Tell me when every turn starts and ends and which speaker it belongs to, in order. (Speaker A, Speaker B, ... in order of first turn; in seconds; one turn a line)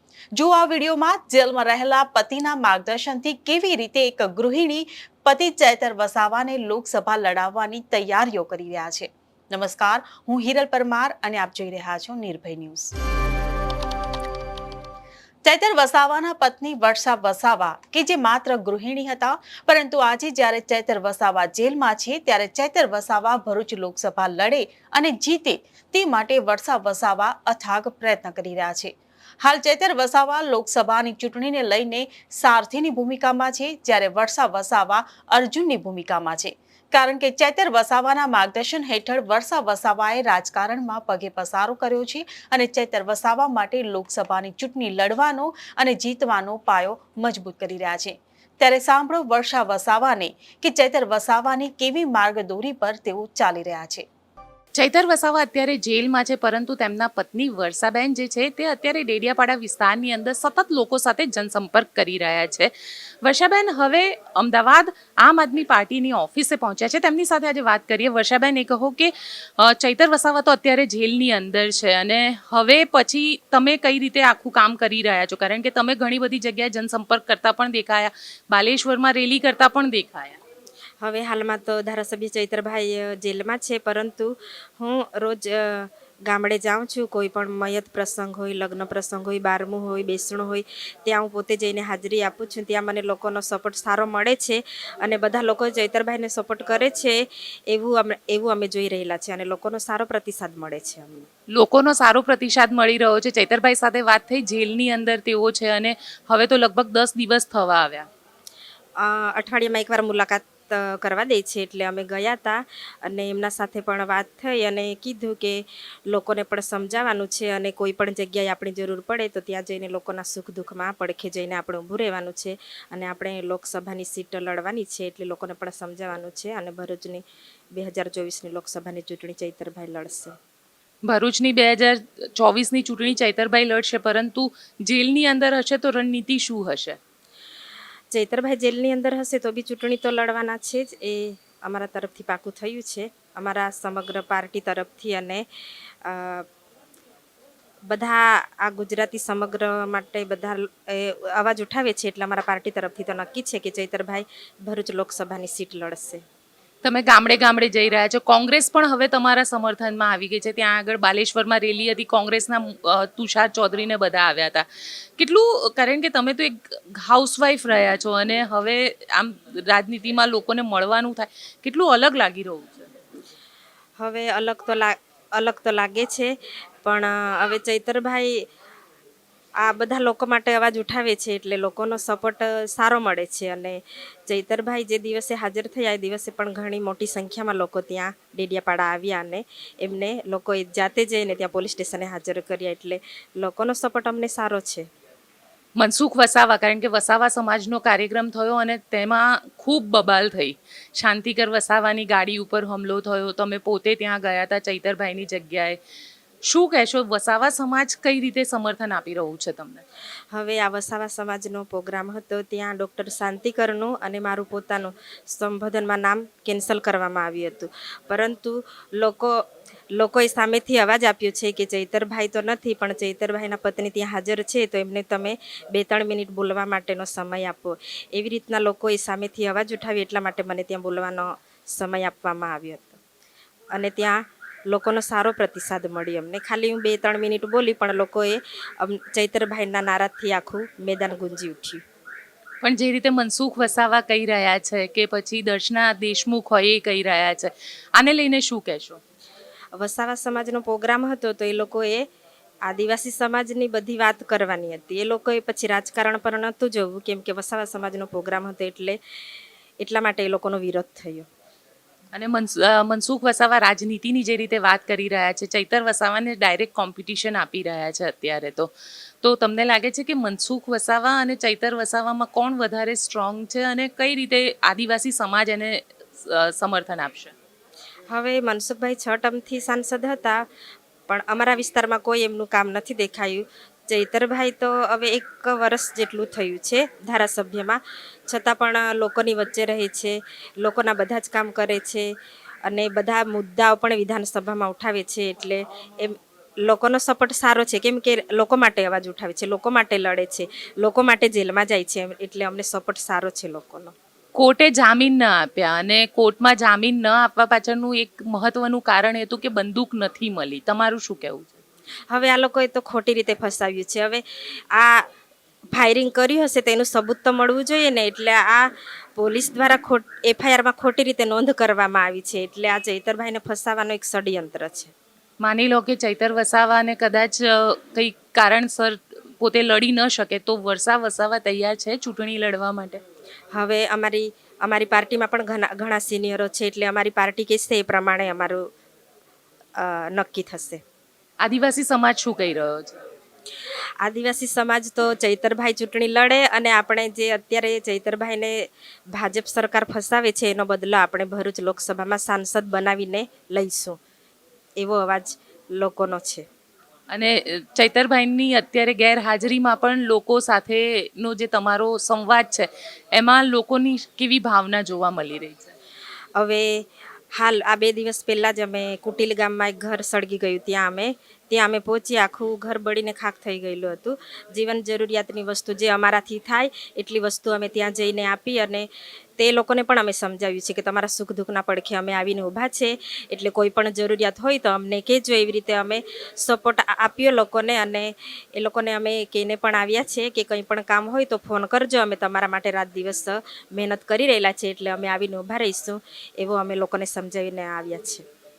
Speaker A: 0.4-12.9
Speaker A: 15.4-28.9
Speaker A: 29.4-54.0
Speaker B: 54.8-62.7
Speaker B: 63.2-80.4
Speaker C: 81.0-101.3
Speaker B: 101.6-108.1
Speaker C: 109.0-127.2
Speaker C: 127.7-130.3
Speaker B: 131.1-137.0
Speaker C: 138.1-145.4
Speaker C: 146.0-146.4
Speaker C: 147.9-156.2
Speaker B: 156.8-164.7
Speaker B: 165.2-172.9
Speaker C: 174.0-176.3
Speaker C: 176.8-178.3
Speaker C: 179.6-194.9
Speaker B: 195.8-205.8
Speaker B: 206.5-209.8
Speaker C: 210.3-219.4
Speaker C: 220.0-233.0
Speaker C: 233.7-241.8
Speaker B: 242.6-249.0
Speaker C: 249.8-252.1
Speaker C: 252.7-259.0
Speaker C: 259.8-261.3
Speaker B: 262.1-268.7
Speaker B: 269.2-277.3
Speaker C: 278.1-280.4
Speaker C: 281.1-292.1
Speaker C: 292.7-303.9
Speaker B: 304.4-311.5
Speaker C: 312.1-315.0
Speaker C: 315.7-324.9
Speaker B: 325.4-333.0
Speaker C: 333.5-338.7
Speaker C: 339.8-340.8
Speaker B: 341.4-343.0
Speaker C: 344.0-348.6
Speaker C: 349.1-354.0
Speaker C: 354.8-356.4
Speaker B: 357.1-365.7
Speaker C: 366.4-366.8
Speaker C: 367.3-378.9
Speaker C: 379.4-398.2